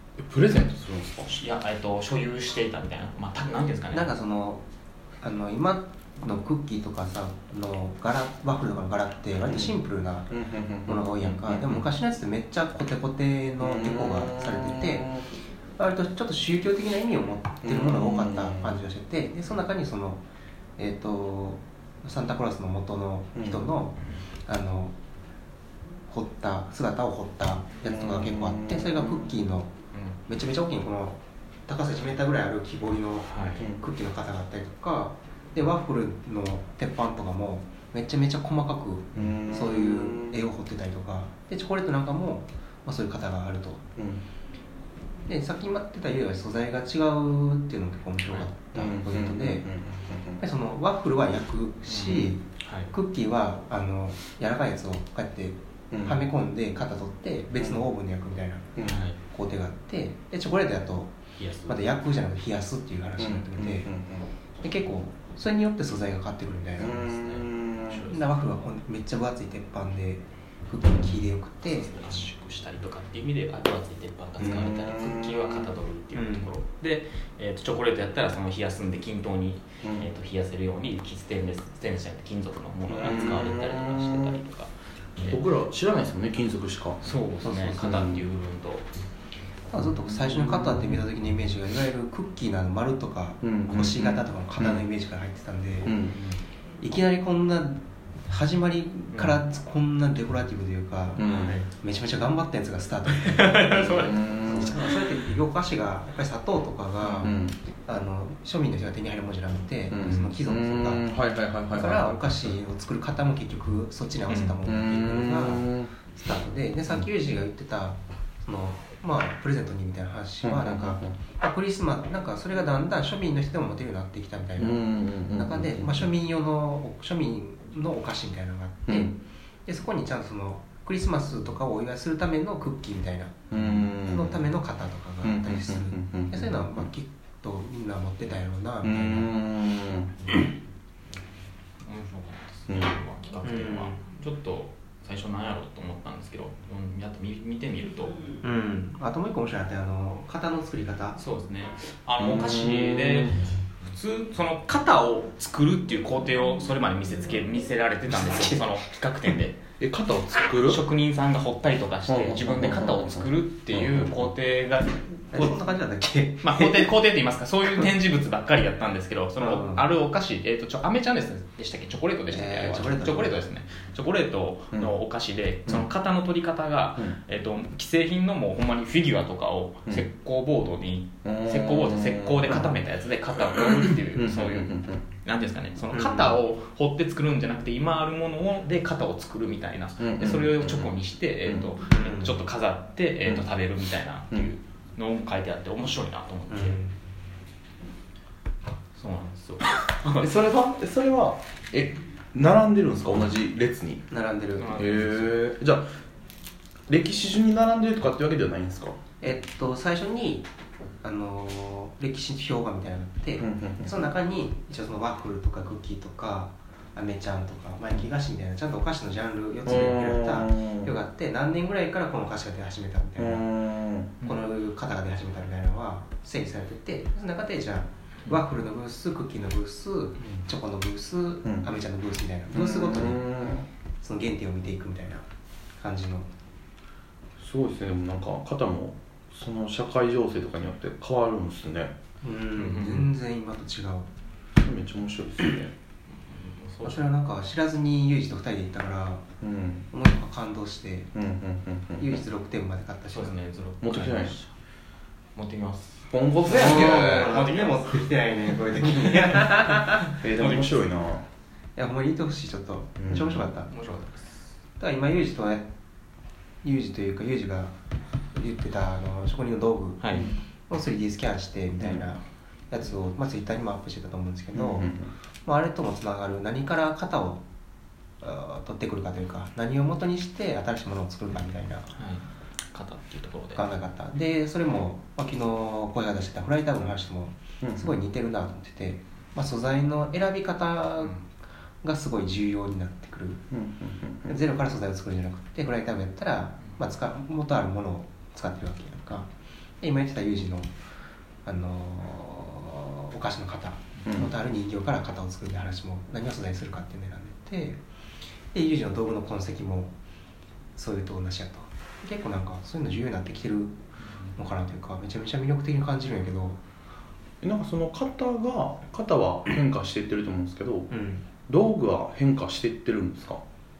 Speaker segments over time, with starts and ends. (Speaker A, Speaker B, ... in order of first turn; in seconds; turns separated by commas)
Speaker A: 0.2-1.3, Speaker B: 1.2-4.1, Speaker C: 3.9-4.6, Speaker C: 5.2-15.1, Speaker A: 9.4-9.8, Speaker A: 10.3-11.8, Speaker A: 13.6-15.2, Speaker C: 15.8-20.2, Speaker A: 17.6-18.7, Speaker C: 20.8-24.9, Speaker A: 23.4-23.6, Speaker C: 26.1-29.7, Speaker A: 27.9-29.2, Speaker B: 29.9-30.2, Speaker C: 30.3-43.8, Speaker B: 33.3-33.7, Speaker A: 39.1-40.3, Speaker A: 44.0-44.2, Speaker C: 45.3-49.7, Speaker A: 48.7-50.4, Speaker C: 50.4-61.1, Speaker B: 51.9-52.9, Speaker A: 55.9-56.2, Speaker A: 58.8-59.0, Speaker B: 58.8-59.2, Speaker B: 61.4-61.8, Speaker C: 61.7-63.9, Speaker A: 63.2-64.3, Speaker C: 64.6-67.0, Speaker A: 66.8-68.0, Speaker B: 67.0-68.3, Speaker C: 68.1-71.9, Speaker B: 71.7-85.4, Speaker A: 74.4-75.7, Speaker C: 76.1-76.5, Speaker A: 82.9-84.4, Speaker C: 83.0-83.5, Speaker A: 85.2-87.0, Speaker B: 87.0-88.8, Speaker C: 87.4-88.0, Speaker A: 87.8-88.2, Speaker C: 89.7-96.0, Speaker A: 90.1-91.0, Speaker A: 93.4-94.8, Speaker A: 95.8-96.1, Speaker B: 96.0-96.4, Speaker C: 96.8-111.0, Speaker B: 99.1-99.4, Speaker A: 101.2-101.6, Speaker B: 101.2-101.7, Speaker B: 103.2-104.9, Speaker A: 103.9-104.8, Speaker B: 107.0-107.3, Speaker A: 107.2-107.6, Speaker A: 109.9-112.6, Speaker C: 111.7-129.1, Speaker B: 114.3-114.5, Speaker A: 114.6-115.9, Speaker A: 120.4-121.1, Speaker A: 124.6-126.1, Speaker A: 128.9-129.1, Speaker C: 129.7-139.3, Speaker A: 133.5-134.4, Speaker A: 135.2-136.8, Speaker A: 138.8-140.1, Speaker B: 141.8-148.2, Speaker A: 142.7-142.9, Speaker C: 143.4-144.0, Speaker C: 148.4-151.2, Speaker B: 151.2-159.6, Speaker A: 152.2-153.5, Speaker C: 158.1-158.7, Speaker A: 159.8-160.8, Speaker B: 160.6-165.6, Speaker A: 162.1-164.2, Speaker C: 165.3-166.9, Speaker B: 166.4-196.8, Speaker C: 169.4-169.8, Speaker C: 172.3-173.4, Speaker A: 181.2-182.7, Speaker A: 183.8-185.0, Speaker C: 185.9-186.3, Speaker A: 190.0-190.9, Speaker C: 191.9-192.4, Speaker C: 196.5-196.9, Speaker B: 198.9-200.1, Speaker A: 200.0-204.0, Speaker C: 204.1-204.8, Speaker B: 204.6-205.4, Speaker A: 204.7-205.8, Speaker A: 206.9-209.0, Speaker C: 209.2-210.5, Speaker C: 211.0-223.4, Speaker A: 213.4-213.9, Speaker A: 219.7-220.9, Speaker A: 223.2-224.2, Speaker C: 224.2-233.3, Speaker A: 231.4-231.7, Speaker A: 232.5-233.7, Speaker C: 234.0-235.2, Speaker C: 235.8-236.3, Speaker A: 237.4-241.9, Speaker C: 242.2-244.1, Speaker B: 242.5-243.1, Speaker A: 244.6-245.7, Speaker B: 246.2-247.1, Speaker C: 246.8-249.2, Speaker A: 249.4-249.9, Speaker C: 249.9-251.1, Speaker A: 251.1-252.1, Speaker C: 252.0-253.4, Speaker B: 253.1-254.5, Speaker A: 253.8-254.3, Speaker B: 255.3-258.0, Speaker A: 256.1-257.3, Speaker C: 256.5-260.2, Speaker A: 260.1-261.2, Speaker B: 260.4-260.6, Speaker C: 261.8-263.7, Speaker A: 263.0-263.4, Speaker B: 263.7-264.5, Speaker C: 264.8-265.7, Speaker C: 266.6-267.7, Speaker C: 268.3-274.9, Speaker B: 270.0-270.3, Speaker A: 274.5-275.1, Speaker C: 275.4-277.4, Speaker C: 278.2-281.9, Speaker B: 281.9-283.6, Speaker C: 283.6-291.2, Speaker A: 287.6-287.9, Speaker C: 291.8-293.4, Speaker A: 293.5-294.3, Speaker C: 294.2-299.3, Speaker C: 299.8-300.7, Speaker C: 301.4-307.8, Speaker A: 304.0-304.3, Speaker C: 308.5-309.9, Speaker C: 310.8-313.8, Speaker C: 314.3-316.6, Speaker A: 317.4-320.9, Speaker C: 320.9-321.3, Speaker A: 321.4-323.4